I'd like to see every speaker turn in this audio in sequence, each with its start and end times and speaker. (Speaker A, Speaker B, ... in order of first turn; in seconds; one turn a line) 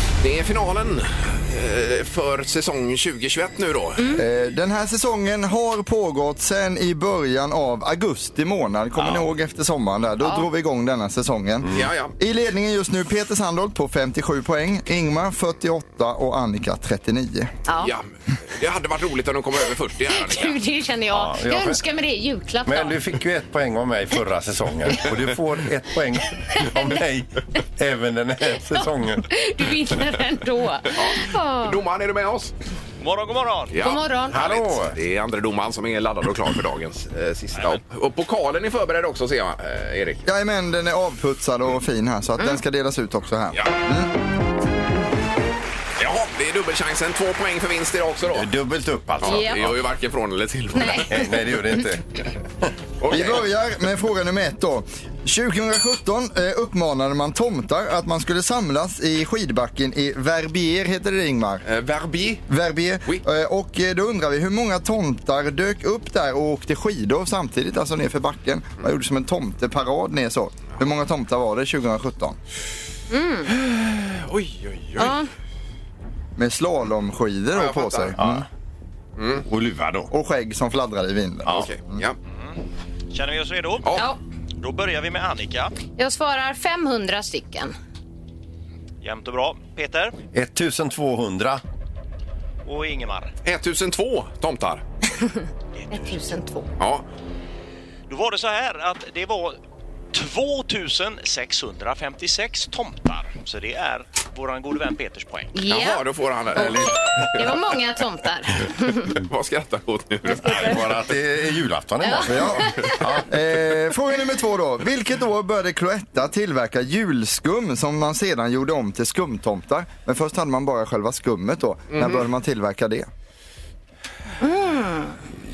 Speaker A: 0.2-4.1
Speaker B: 4.2-17.5
Speaker C: 10.2-10.5
Speaker A: 11.7-12.1
Speaker C: 17.7-17.9
Speaker A: 17.8-20.6
Speaker C: 20.1-23.0
Speaker D: 21.1-21.8
Speaker D: 22.7-29.3
Speaker C: 26.6-27.0
Speaker C: 28.6-31.8
Speaker A: 30.9-32.5
Speaker E: 33.0-33.8
Speaker A: 33.7-40.2
Speaker C: 33.8-34.4
Speaker D: 34.3-35.0
Speaker B: 40.2-44.1
Speaker A: 46.0-48.5
Speaker D: 48.3-49.8
Speaker A: 49.2-51.3
Speaker C: 49.2-49.6
Speaker C: 50.8-51.2
Speaker D: 51.1-52.0
Speaker A: 53.0-53.4
Speaker B: 53.1-61.7
Speaker A: 61.7-62.5
Speaker B: 62.5-72.4
Speaker C: 73.1-73.5
Speaker A: 73.5-75.2
Speaker C: 75.0-75.3
Speaker B: 76.4-78.5
Speaker A: 77.5-78.2
Speaker D: 78.2-78.5
Speaker A: 79.2-79.5
Speaker D: 79.5-80.1
Speaker B: 80.1-82.0
Speaker A: 81.5-82.2
Speaker E: 83.1-84.1
Speaker E: 84.6-85.7
Speaker C: 86.0-87.8
Speaker E: 89.0-90.2
Speaker D: 90.3-91.6
Speaker E: 92.7-93.3
Speaker A: 93.4-94.8
Speaker E: 95.8-96.2
Speaker C: 95.9-96.7
Speaker A: 96.8-97.1
Speaker E: 98.1-99.6
Speaker E: 100.1-105.6
Speaker C: 105.5-109.2
Speaker A: 105.7-107.3
Speaker A: 109.1-110.9
Speaker C: 110.2-110.8
Speaker D: 110.4-113.3
Speaker C: 112.0-113.0
Speaker B: 112.2-123.1
Speaker A: 121.9-122.2
Speaker C: 124.4-125.2